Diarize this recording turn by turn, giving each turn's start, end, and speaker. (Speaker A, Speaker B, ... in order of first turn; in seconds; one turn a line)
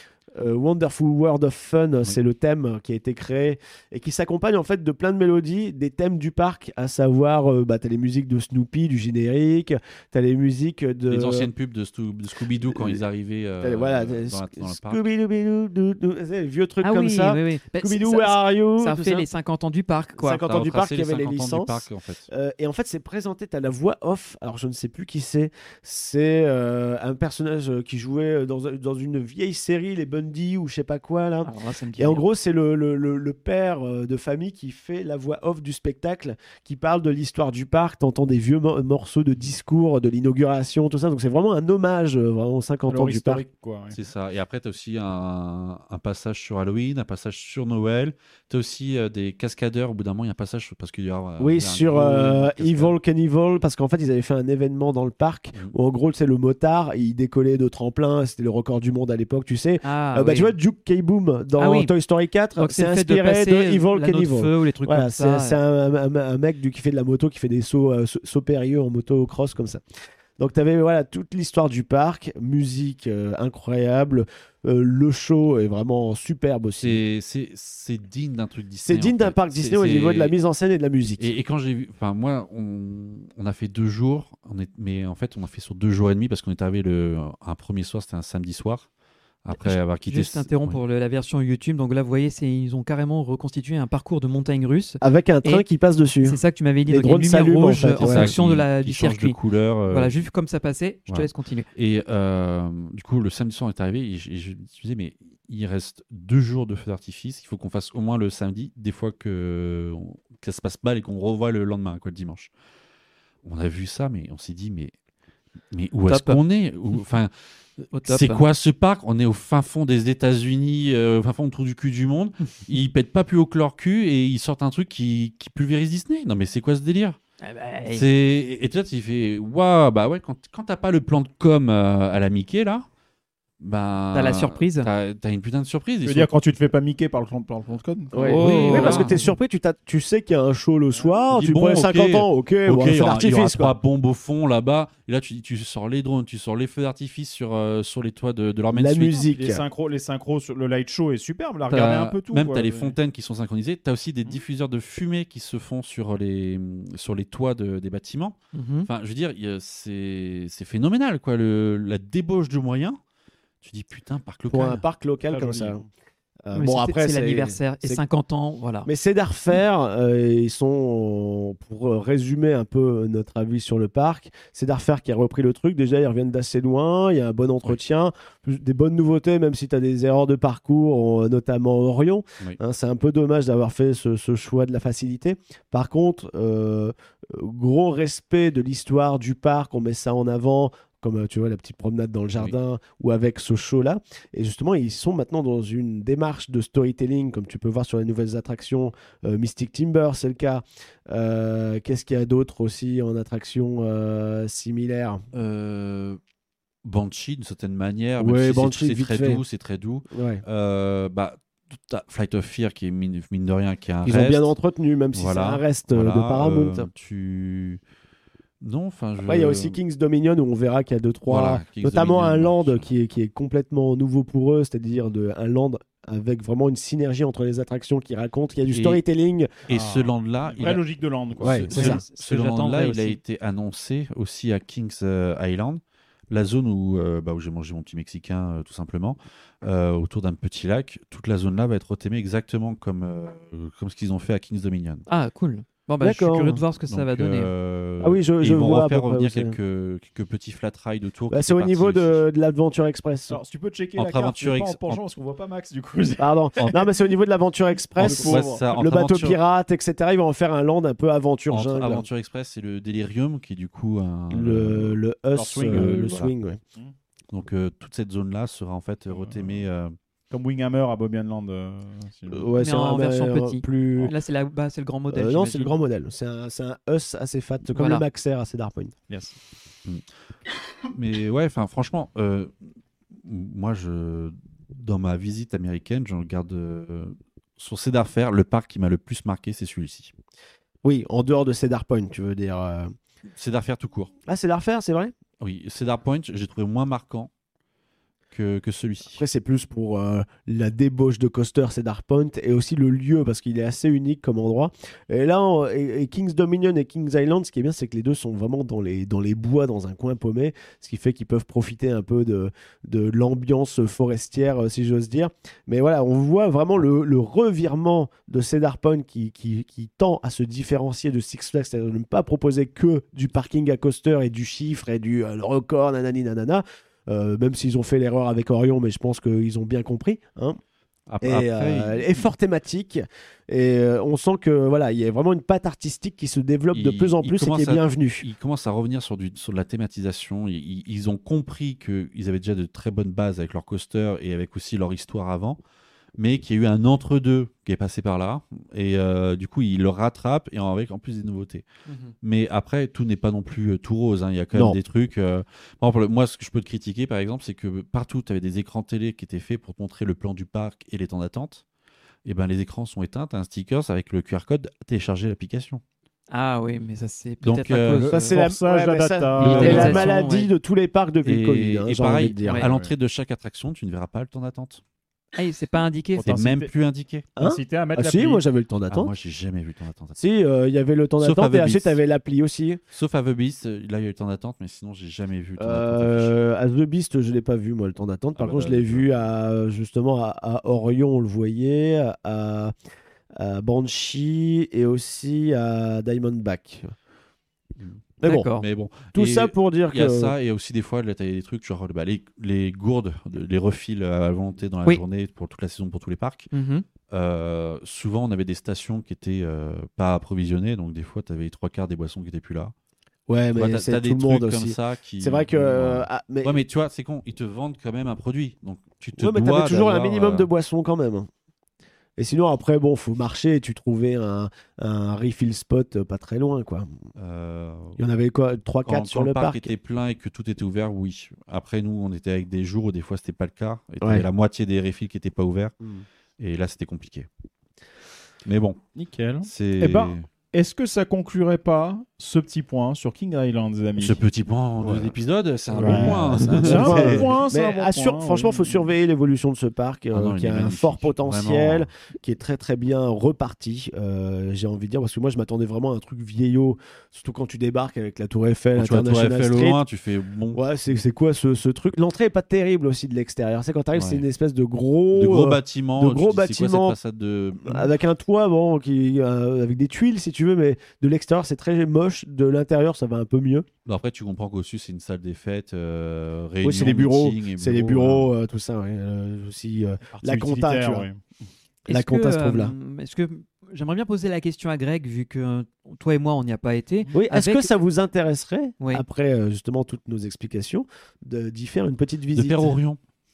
Speaker A: 0.3-11.5
Speaker B: 11.1-15.0
Speaker A: 12.7-13.0
Speaker A: 13.6-19.3
Speaker C: 16.8-20.5
Speaker A: 20.2-43.5
Speaker B: 20.4-22.3
Speaker C: 31.4-32.2
Speaker D: 42.9-44.0
Speaker B: 43.9-53.0
Speaker A: 51.4-69.8
Speaker C: 59.8-60.5
Speaker C: 61.6-61.9
Speaker C: 62.6-65.6
Speaker A: 70.4-77.0
Speaker B: 76.8-80.3
Speaker A: 78.8-81.3
Speaker B: 81.2-88.9
Speaker B: 89.5-90.8
Speaker C: 89.5-95.7
Speaker A: 95.0-98.3
Speaker C: 96.2-101.7
Speaker B: 98.0-100.2
Speaker B: 101.1-112.5
Speaker B: 113.4-115.0
Speaker B: 115.7-127.2
Speaker C: 116.1-116.4
Speaker C: 117.9-118.4
Speaker C: 127.4-128.1
Speaker B: 127.9-132.9
Speaker B: 133.6-136.3
Speaker C: 134.1-134.9
Speaker D: 136.0-139.1
Speaker A: 138.1-143.8
Speaker C: 138.2-139.3
Speaker B: 138.3-139.1
Speaker B: 141.3-149.2
Speaker A: 148.7-149.6
Speaker D: 149.3-153.0
Speaker B: 151.7-163.0
Speaker C: 158.5-158.9
Speaker B: 163.6-164.8
Speaker A: 164.5-165.8
Speaker D: 165.3-165.8
Speaker A: 166.5-168.0
Speaker C: 166.6-168.9
Speaker A: 168.8-205.2
Speaker B: 205.3-206.2
Speaker B: 206.8-214.5
Speaker A: 208.2-209.4
Speaker A: 210.1-210.4
Speaker A: 214.0-216.9
Speaker B: 215.1-217.8
Speaker B: 218.6-219.8
Speaker A: 219.2-229.5
Speaker B: 221.3-222.9
Speaker B: 228.7-229.0
Speaker B: 229.7-245.1
Speaker D: 229.7-232.0
Speaker A: 231.4-232.0
Speaker C: 231.7-233.2
Speaker C: 245.1-247.5
Speaker A: 246.0-246.6
Speaker B: 246.9-252.2
Speaker A: 248.0-249.6
Speaker A: 251.3-253.4
Speaker D: 253.3-256.8
Speaker B: 254.0-255.0
Speaker A: 256.2-262.1
Speaker B: 258.0-259.4
Speaker D: 258.0-258.6
Speaker B: 261.5-265.0
Speaker A: 264.3-266.6
Speaker D: 265.3-266.1
Speaker B: 265.7-266.3
Speaker B: 267.3-269.9
Speaker D: 269.1-269.6
Speaker D: 270.3-272.5
Speaker A: 272.3-274.1
Speaker C: 272.6-275.7
Speaker A: 275.1-278.9
Speaker C: 277.8-278.0
Speaker D: 279.1-279.4
Speaker B: 280.9-282.6
Speaker B: 283.1-290.1
Speaker A: 290.8-292.9
Speaker B: 293.3-294.1
Speaker A: 294.3-295.1
Speaker B: 295.4-297.3
Speaker B: 298.3-299.2
Speaker A: 299.1-330.6
Speaker B: 331.1-332.3
Speaker A: 331.2-338.2
Speaker B: 336.7-345.6
Speaker B: 346.2-351.6
Speaker C: 351.9-352.1
Speaker B: 352.2-361.6
Speaker B: 362.2-365.8
Speaker C: 366.3-368.3
Speaker B: 367.4-368.1
Speaker D: 368.0-370.1
Speaker A: 368.1-372.6
Speaker B: 369.4-370.1
Speaker C: 369.4-370.5
Speaker B: 371.2-374.8
Speaker D: 372.6-372.9
Speaker C: 375.3-376.4
Speaker D: 376.1-376.7
Speaker B: 376.2-377.3
Speaker A: 377.4-379.1
Speaker D: 377.4-378.4
Speaker B: 378.9-380.2
Speaker A: 380.2-382.8
Speaker B: 381.2-382.0
Speaker B: 382.9-386.4
Speaker A: 385.6-392.7
Speaker B: 388.4-389.1
Speaker A: 393.4-396.9
Speaker B: 397.8-406.5
Speaker A: 398.2-398.5
Speaker C: 398.2-398.7
Speaker A: 399.1-400.3
Speaker C: 406.5-406.9
Speaker B: 407.1-412.7
Speaker A: 413.3-416.6
Speaker B: 413.6-420.5
Speaker A: 419.2-421.3
Speaker A: 422.2-426.9
Speaker B: 427.2-428.0
Speaker A: 428.0-429.7
Speaker B: 428.9-435.7
Speaker A: 434.0-434.3
Speaker A: 435.8-436.1
Speaker B: 436.4-437.3
Speaker B: 438.4-438.8
Speaker D: 438.9-444.2
Speaker B: 439.4-440.3
Speaker B: 444.0-447.3
Speaker D: 444.8-445.1
Speaker D: 445.7-448.9
Speaker A: 445.8-459.8
Speaker B: 450.1-451.9
Speaker B: 458.8-460.6
Speaker A: 460.5-467.0
Speaker B: 463.9-464.2
Speaker B: 465.1-467.9
Speaker A: 467.6-473.7
Speaker B: 473.9-478.3
Speaker A: 476.6-481.1
Speaker D: 480.1-481.2
Speaker A: 481.9-482.7
Speaker C: 481.9-487.7
Speaker A: 487.1-492.8
Speaker B: 492.4-493.0